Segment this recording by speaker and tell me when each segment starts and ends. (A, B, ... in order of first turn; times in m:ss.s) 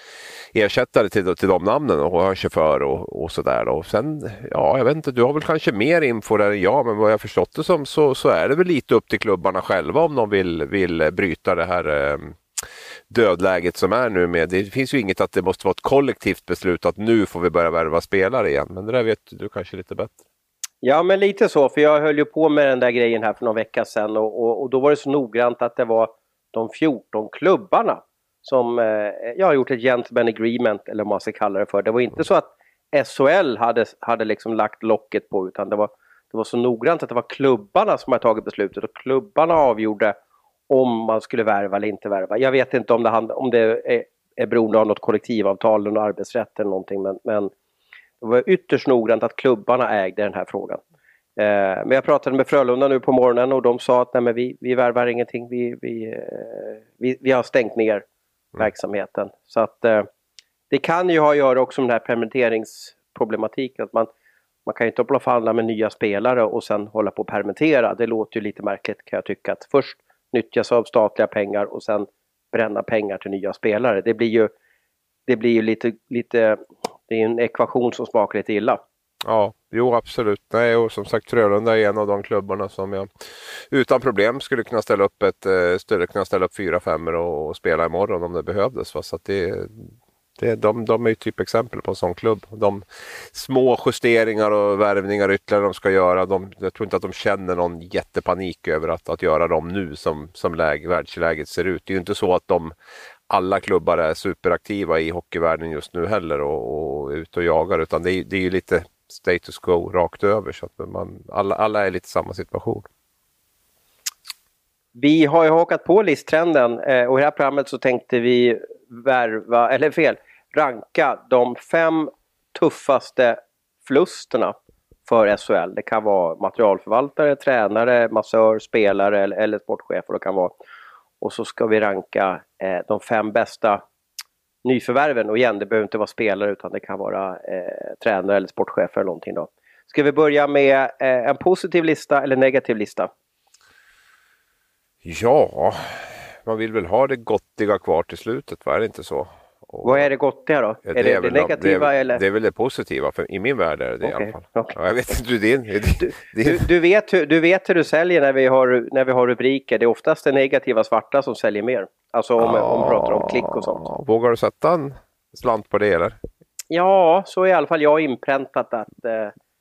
0:00.5-0:12.4 A
0:13.1-0:20.2 A
0:20.8-0:40.1 B
0:40.7-0:47.5 B
0:48.2-0:50.8 B
0:51.4-0:58.0 B
0:58.6-1:00.1 B
1:00.7-1:04.1 B
1:04.6-1:14.5 B
1:15.3-1:18.8 B
1:19.2-1:23.1 A
1:23.7-1:42.7 A
1:43.3-1:52.9 A
1:54.9-2:04.5 B
2:05.0-2:10.5 B
2:11.2-2:13.8 B
2:14.6-2:23.1 B
2:25.0-2:30.1 A
2:29.8-2:32.2 B
2:30.8-2:36.6 A
2:34.0-2:34.7 B
2:36.0-2:43.8 B
2:42.4-2:46.2 A
2:46.7-2:49.3 B